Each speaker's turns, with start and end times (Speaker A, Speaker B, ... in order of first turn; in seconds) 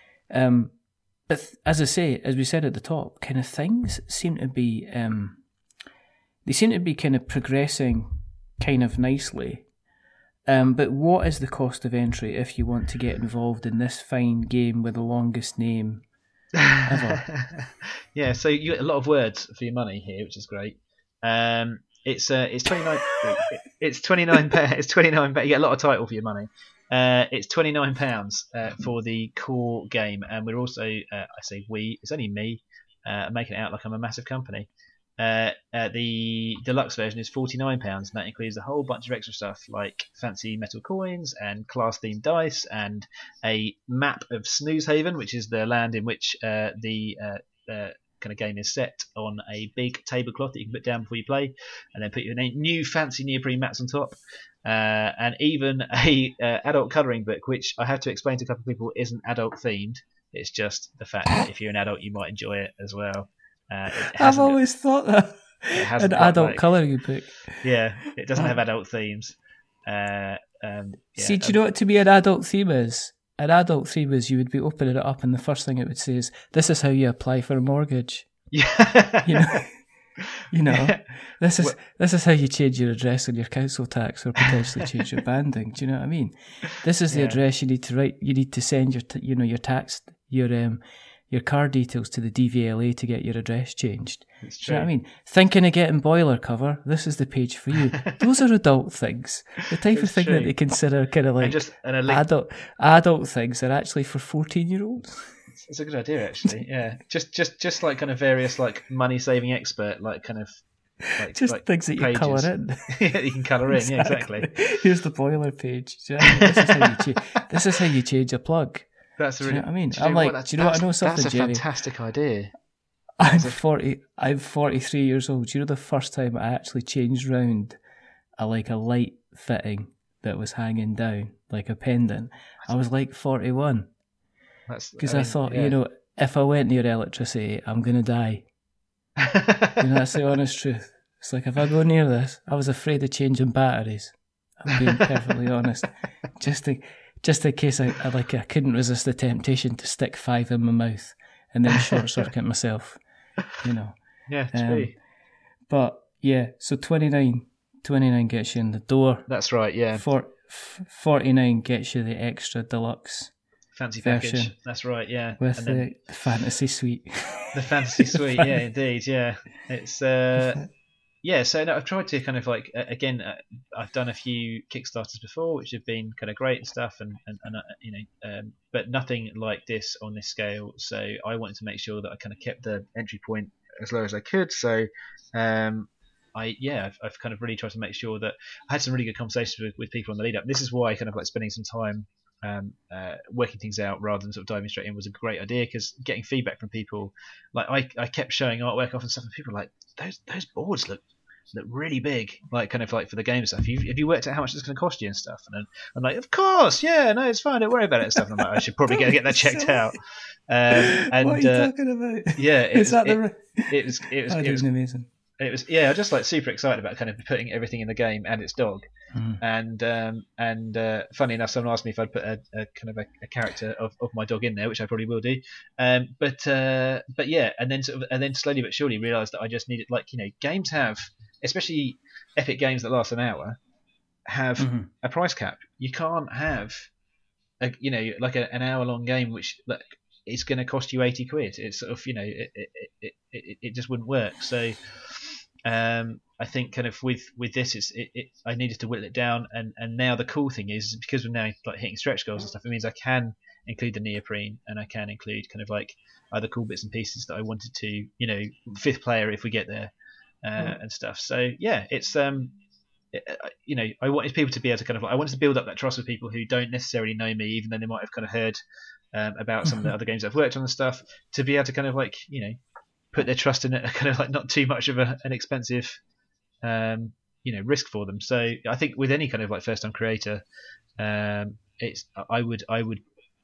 Speaker A: 0.3-5.4, 6.5-9.7, 10.5-16.1, 16.8-17.3, 64.2-67.6, 71.2-78.5, 79.2-105.4, 111.3-113.0, 113.7-118.9, 119.4-121.6, 123.2-127.8, 128.4-133.9, 135.0-138.5, 139.8-153.0, 153.5-154.0, 154.5-154.9, 155.7-159.3, 159.9-163.3, 164.0-164.5, 165.4-168.5, 208.2-209.9, 210.7-215.1, 219.1-219.4, 234.6-234.9
Speaker B: 16.7-64.6, 65.8-66.7, 67.6-69.4, 69.9-71.6, 78.5-79.3, 80.7-81.8, 87.1-87.4, 94.4-94.9, 99.9-100.5, 101.4-102.2, 105.6-114.5, 116.2-117.0, 119.2-122.5, 123.3-123.6, 134.7-135.8, 139.2-139.8, 154.3-154.9, 159.3-160.1, 163.7-165.9, 167.5-170.7, 171.2-211.7, 212.3-214.7, 215.4-218.9, 219.4-233.6, 234.3-236.9, 237.6-259.9, 260.4-262.6, 263.1-268.6, 269.1-272.6, 273.1-276.0, 276.6-280.4, 281.0-283.0